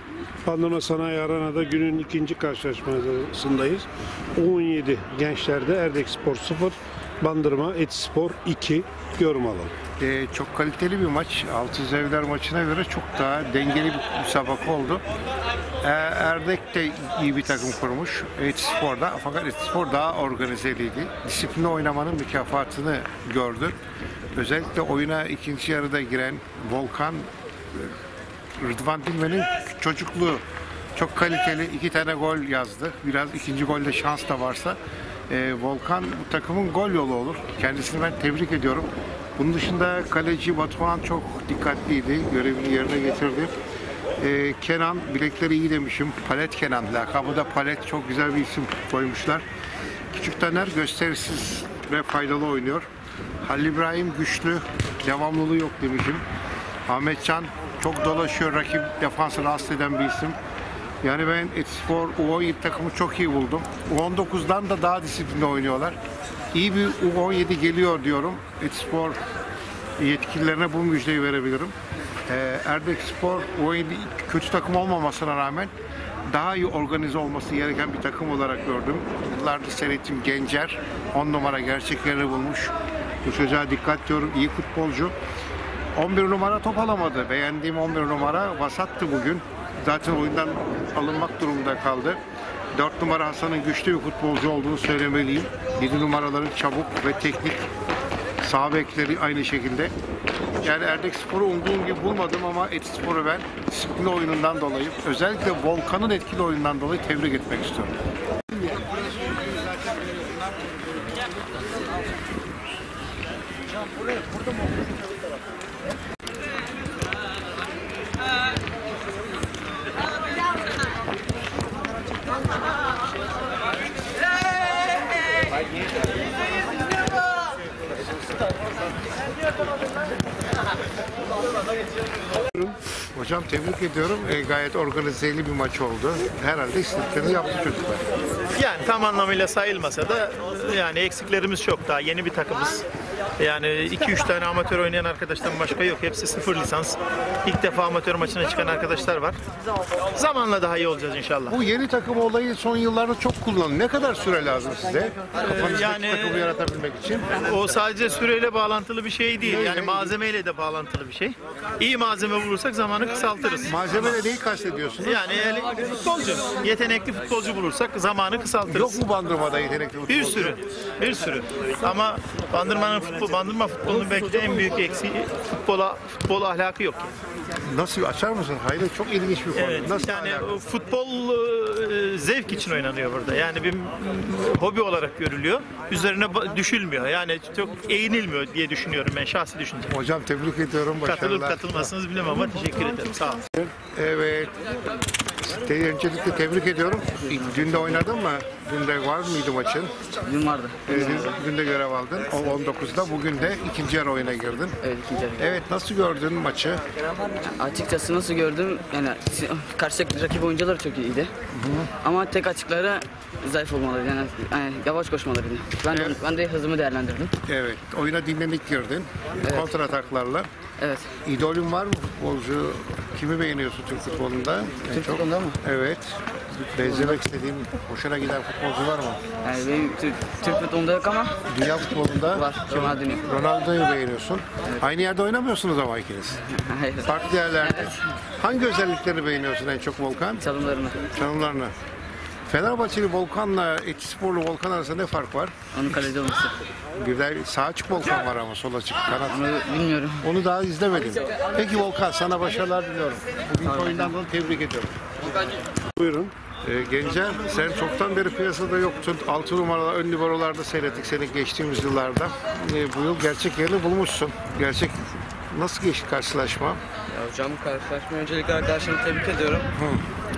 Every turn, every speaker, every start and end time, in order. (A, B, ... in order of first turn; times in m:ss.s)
0:00.4-0:09.7 A
0:10.0-0:15.0 B
0:15.8-0:23.8 B
0:24.3-0:27.9 B
0:28.6-0:30.4 B
0:30.9-0:34.8 B
0:35.3-0:43.5 B
0:44.2-0:49.4 B
0:50.1-0:52.9 B
0:53.4-0:56.2 B
0:56.9-1:00.4 B
1:01.0-1:06.0 B
1:06.5-1:09.2 B
1:10.0-1:11.7 B
1:12.3-1:15.7 B
1:16.3-1:25.1 B
1:26.0-1:32.2 B
1:32.7-1:37.7 B
1:38.4-1:39.9 B
1:40.6-1:47.9 B
2:13.1-2:18.1 B
2:18.5-2:22.8 C
2:23.4-2:29.4 C
2:30.1-2:31.6 C
2:31.5-2:37.3 B
2:35.4-2:36.5 C
2:37.3-2:44.2 C
2:39.4-2:40.1 B
2:43.6-2:45.3 B
2:45.0-2:49.0 C
2:48.7-2:50.6 B
2:50.1-2:57.1 C
2:57.6-3:00.5 B
2:59.6-3:09.9 C
3:09.9-3:11.9 B
3:11.0-3:13.5 C
3:13.6-3:14.5 B
3:15.4-3:19.9 B
3:17.2-3:18.0 D
3:20.2-3:21.3 D
3:20.8-3:24.8 B
3:24.8-3:25.5 D
3:25.4-3:26.8 B
3:27.4-3:31.3 D
3:31.5-3:31.9 B
3:32.0-3:37.3 D
3:35.9-3:36.2 B
3:37.4-3:40.5 B
3:39.4-3:39.7 D
3:40.8-3:41.1 D
3:41.2-3:46.2 B
3:44.9-3:45.6 D
3:46.7-3:49.2 B
3:49.4-3:51.4 D
3:51.5-3:56.4 B
3:52.2-3:53.2 D
3:56.5-3:58.0 D
3:57.0-4:00.4 B
4:00.4-4:01.0 D
4:01.1-4:01.7 B
4:02.4-4:05.5 B
4:05.7-4:06.5 D
4:07.0-4:09.5 B
4:09.3-4:10.2 D
4:10.2-4:14.9 B
4:13.6-4:14.1 D
4:16.0-4:16.3 A
4:16.6-4:26.8 B
4:27.1-4:29.7 E
4:29.8-4:30.0 B